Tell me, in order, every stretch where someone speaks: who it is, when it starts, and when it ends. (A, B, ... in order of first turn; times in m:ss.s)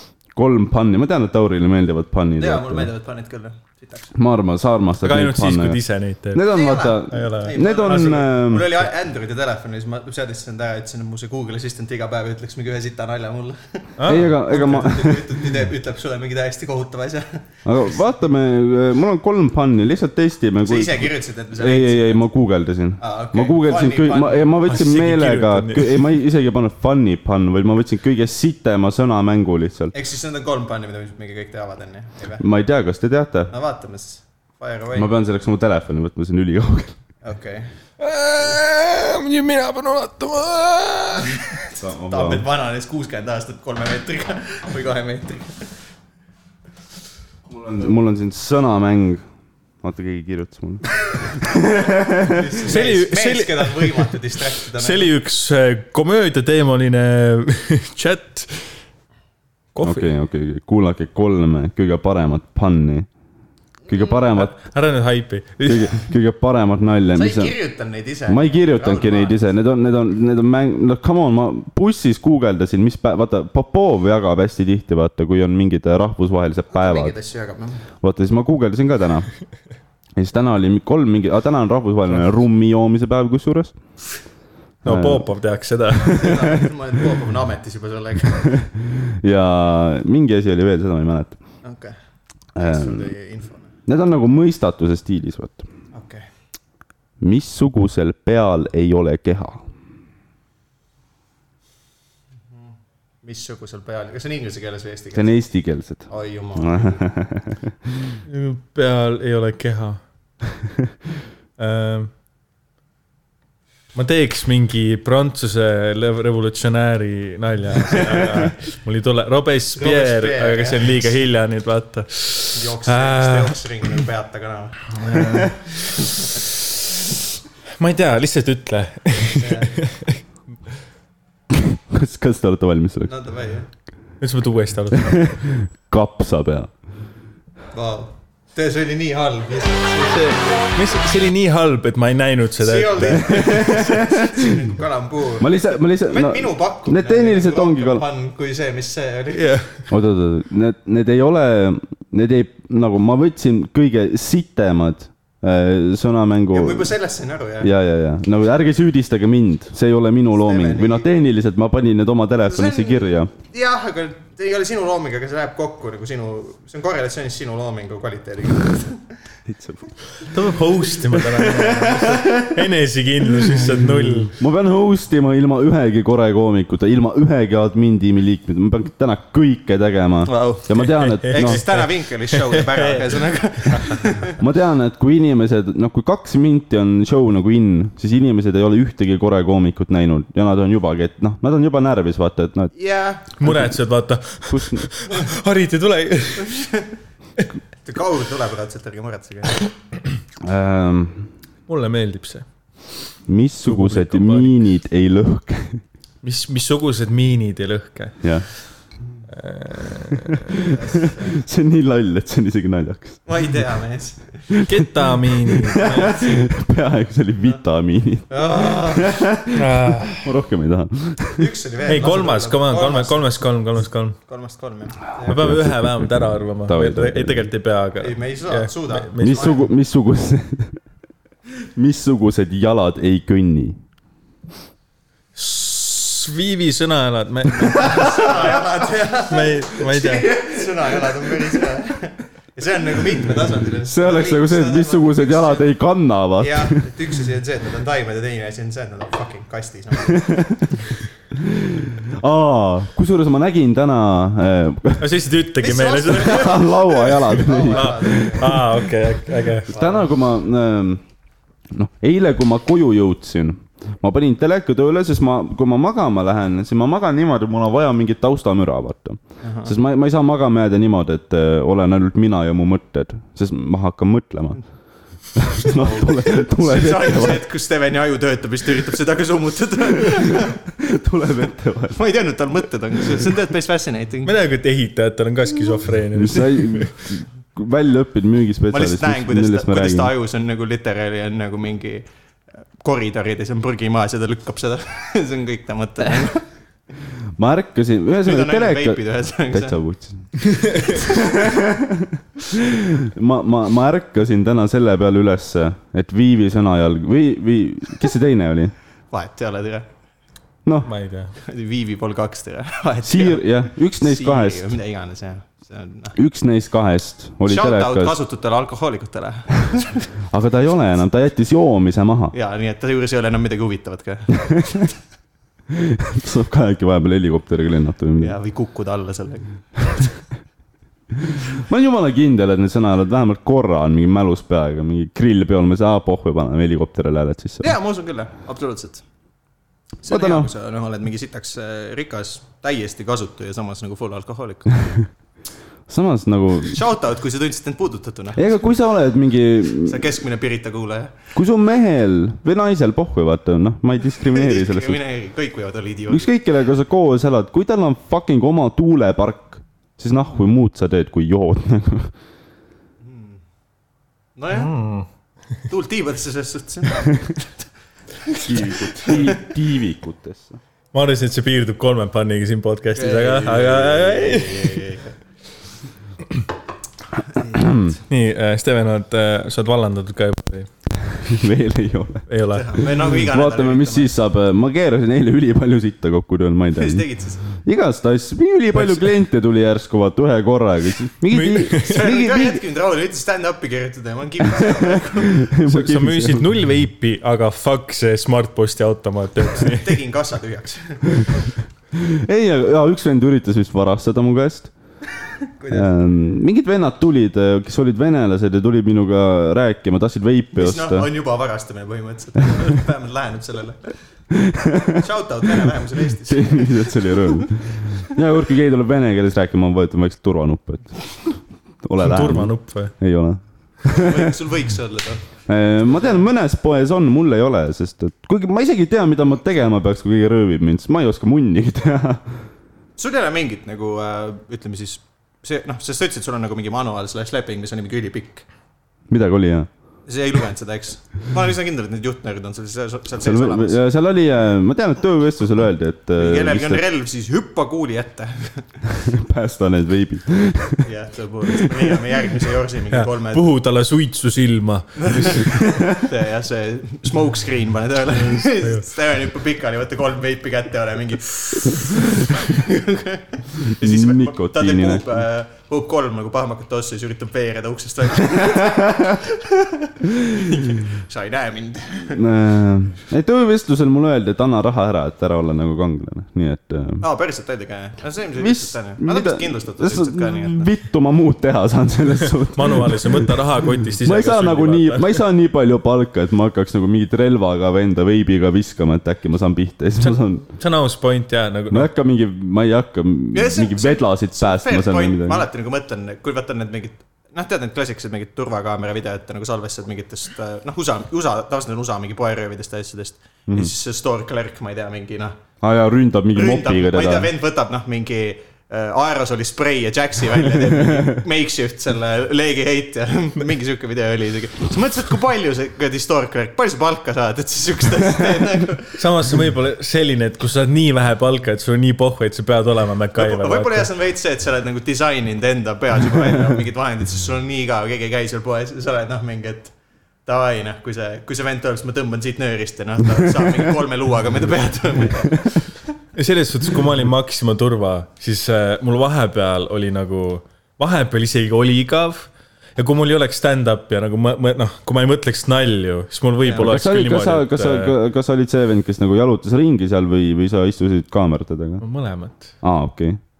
0:00.3-0:02.9 A
0:02.4-0:04.1 B
0:04.1-0:05.8 A
0:05.0-0:06.5 C
0:06.3-0:08.9 A
0:06.5-0:17.4 B
0:07.1-0:07.5 C
0:14.0-0:14.3 C
0:14.0-0:15.5 A
0:17.6-0:29.9 A
0:20.6-0:22.3 B
0:23.0-0:24.5 B
0:24.6-0:26.1 C
0:29.9-0:32.4 B
0:32.4-0:33.5 A
0:33.5-0:35.1 B
0:34.9-0:36.9 A
0:37.2-0:37.7 B
0:38.0-0:41.5 C
0:41.8-0:42.4 A
0:42.1-0:45.7 B
0:47.5-0:49.2 A
0:49.8-0:52.6 A
0:52.1-0:55.1 B
0:52.6-0:58.8 C
0:59.7-1:00.1 C
0:59.8-1:03.1 A
1:03.9-1:04.5 A
1:03.9-1:04.1 B
1:04.3-1:06.1 C
1:05.6-1:07.6 A
1:07.1-1:09.4 B
1:08.3-1:17.1 A
1:16.7-1:17.8 B
1:18.0-1:19.3 A
1:20.2-1:23.7 A
1:24.8-1:25.3 A
1:24.8-1:26.5 C
1:26.0-1:28.6 B
1:28.6-1:31.4 A
1:31.6-1:31.9 B
1:32.6-1:33.1 A
1:32.6-1:33.7 B
1:33.8-1:35.6 A
1:35.9-1:36.2 B
1:37.2-1:39.7 A
1:42.5-1:45.4 B
1:45.1-1:48.2 A
1:46.1-1:47.0 B
1:48.2-1:50.0 C
1:51.6-1:52.1 C
1:53.9-2:03.8 C
1:57.9-1:58.5 B
1:59.7-2:01.1 B
2:02.5-2:05.5 B
2:05.0-2:06.5 C
2:07.8-2:10.2 C
2:09.4-2:09.7 B
2:11.5-2:13.1 A
2:13.0-2:13.7 B
2:14.2-2:15.4 C
2:15.0-2:16.7 A
2:17.7-2:20.6 B
2:20.0-2:23.7 C
2:22.6-2:29.5 B
2:23.2-2:24.5 A
2:25.4-2:28.0 A
2:29.3-2:29.7 C
2:29.9-2:36.9 A
2:36.5-2:37.7 B
2:37.6-2:43.3 A
2:40.3-2:41.1 B
2:42.5-2:49.0 B
2:49.5-2:49.8 A
2:50.2-2:54.4 C
2:51.4-2:52.1 B
2:54.3-3:01.6 A
3:00.2-3:04.4 B
3:00.8-3:03.2 C
3:04.4-3:12.7 A
3:12.7-3:13.3 B
3:13.4-3:16.6 C
3:13.4-3:13.7 A
3:14.5-3:14.9 A
3:16.4-3:16.9 B
3:17.8-3:19.6 B
3:20.4-3:21.3 A
3:21.7-3:22.5 C
3:23.3-3:25.8 A
3:23.6-3:24.6 C
3:26.2-3:28.3 C
3:28.2-3:28.5 A
3:29.3-3:30.6 C
3:30.7-3:31.4 B
3:31.3-3:33.2 A
3:33.2-3:34.4 B
3:34.5-3:41.5 A
3:34.6-3:36.3 C
3:35.8-3:36.2 B
3:38.3-3:39.3 B
3:39.5-3:40.3 C
3:41.4-3:43.5 B
3:41.8-3:44.2 C
3:44.2-3:45.3 B
3:45.2-3:47.5 A
3:45.2-3:49.6 C
3:48.0-3:49.6 B
3:49.2-3:50.8 A
3:51.7-3:53.8 A
3:55.4-3:58.4 C
3:57.7-4:05.7 B
3:59.2-4:00.4 C
4:03.9-4:06.8 A
4:06.4-4:10.7 B
4:10.2-4:10.8 A
4:11.3-4:15.1 A
4:15.0-4:16.6 C
4:15.6-4:18.6 B
4:16.2-4:18.8 A
4:17.2-4:19.7 C
4:19.7-4:21.0 A
4:19.7-4:20.1 B
4:21.7-4:34.6 A
4:29.4-4:29.7 B
4:35.4-4:37.4 A
4:35.6-4:40.6 B
4:40.7-4:42.0 A
4:41.9-4:44.3 B
4:44.2-4:46.9 C
4:46.1-4:50.1 A
4:48.7-4:52.0 B
4:52.8-4:56.4 B
4:57.4-5:08.7 A
4:58.2-4:59.8 B
5:00.6-5:00.8 C
5:00.9-5:01.5 B
5:09.1-5:09.9 B
5:10.8-5:11.3 C
5:11.4-5:16.1 B
5:13.0-5:14.6 A
5:16.1-5:18.2 A
5:17.5-5:20.1 B
5:20.3-5:22.3 A
5:22.3-5:25.0 B
5:25.7-5:28.4 A
5:28.2-5:30.2 B
5:31.3-5:37.7 A
5:37.6-5:39.0 B
5:40.0-5:44.9 B
5:40.0-5:40.5 A
5:45.9-5:46.8 A
5:46.7-5:48.6 B
5:48.4-5:50.2 A
5:49.7-5:51.2 B
5:51.3-5:55.0 A
5:54.2-5:56.3 B
5:56.1-6:02.1 A
6:03.0-6:03.4 B
6:04.4-6:04.8 B
6:04.5-6:05.1 C
6:05.7-6:07.7 B
6:08.2-6:09.5 B
6:08.4-6:10.6 A
6:10.9-6:14.8 C
6:13.0-6:15.1 B
6:17.3-6:17.7 B
6:17.5-6:18.0 A
6:18.1-6:20.7 C
6:21.1-6:22.3 A
6:22.3-6:22.8 C
6:22.5-6:24.1 B
6:23.0-6:32.6 A
6:26.8-6:27.4 B
6:28.7-6:29.0 C
6:31.3-6:32.0 C
6:31.8-6:35.5 B
6:34.6-6:36.5 A
6:35.6-6:40.0 C
6:39.5-6:41.2 B
6:41.9-6:44.7 A
6:45.5-6:45.9 B
6:45.7-6:51.1 A
6:50.5-6:53.9 B
6:54.3-6:55.0 A
6:54.9-6:57.5 B
6:56.2-7:01.1 A
7:01.8-7:04.3 A
7:02.0-7:02.9 C
7:03.8-7:05.3 B
7:05.5-7:12.3 A
7:13.0-7:18.5 B
7:19.1-7:19.7 A
7:20.0-7:23.8 B
7:23.2-7:26.8 A
7:26.2-7:28.8 B
7:28.9-7:30.9 A
7:30.8-7:33.5 B
7:31.6-7:31.9 A
7:32.9-7:35.6 C
7:35.0-7:52.2 B
7:35.5-7:35.9 A
7:38.1-7:38.8 C
7:43.8-7:45.2 A
7:52.1-7:57.0 A
7:57.0-8:00.7 B
7:58.4-8:03.4 A
8:02.5-8:05.2 C
8:04.0-8:10.5 A
8:10.0-8:11.9 C
8:11.7-8:15.4 A
8:13.3-8:25.4 B
8:25.6-8:27.3 A
8:26.3-8:39.0 B
8:30.8-8:31.2 A
8:39.0-8:43.9 C
8:43.2-8:49.7 B
8:50.2-8:55.8 B
8:56.1-9:08.0 C
9:06.5-9:11.8 A
9:11.8-9:12.5 C
9:12.6-9:13.2 A